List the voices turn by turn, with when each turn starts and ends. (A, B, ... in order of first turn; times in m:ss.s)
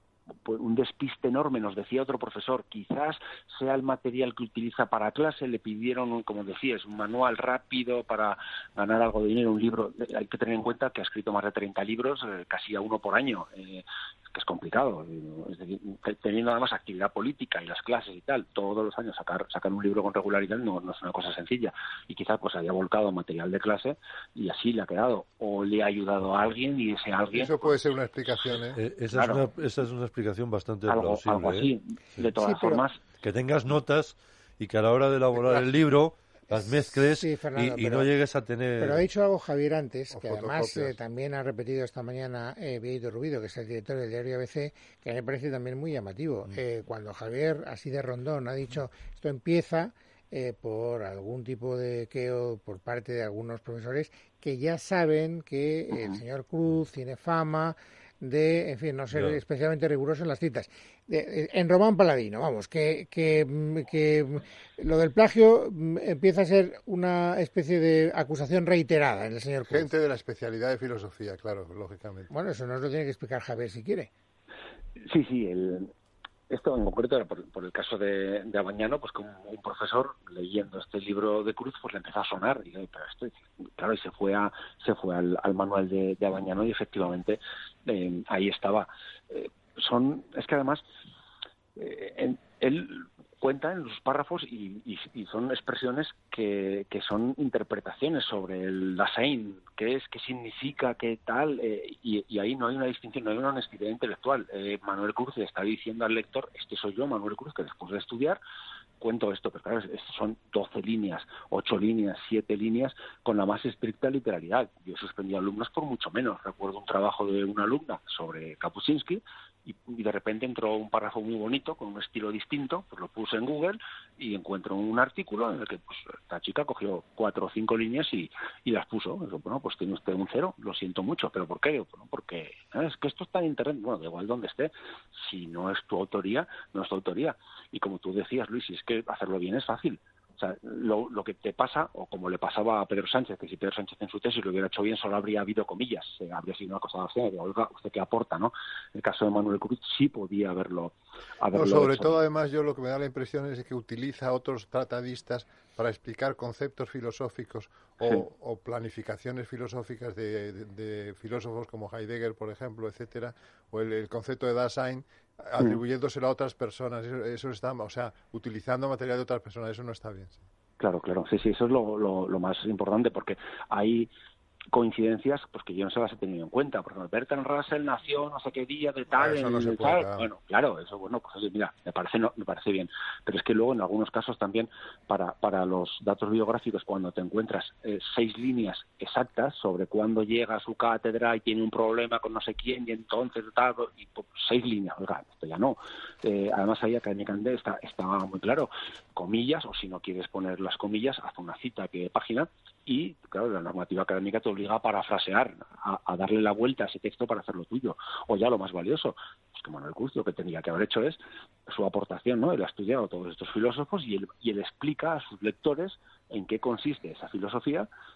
0:00.4-0:27.8 A
0:27.3-0:28.8 B
0:28.7-0:32.3 C
0:29.1-0:29.5 A
0:30.9-0:33.0 A
0:32.3-0:32.8 D
0:33.2-0:39.0 C
0:36.5-0:38.1 D
0:38.8-1:09.9 D
0:40.1-0:40.9 B
0:59.1-0:59.4 C
1:09.6-1:12.3 B
1:12.3-1:14.1 D
1:15.0-1:15.9 A
1:16.5-1:30.8 A
1:31.8-1:48.4 A
1:49.0-2:32.2 A
2:31.5-2:50.4 B
2:50.8-2:54.1 A
2:54.7-3:37.9 A
2:59.1-3:00.3 B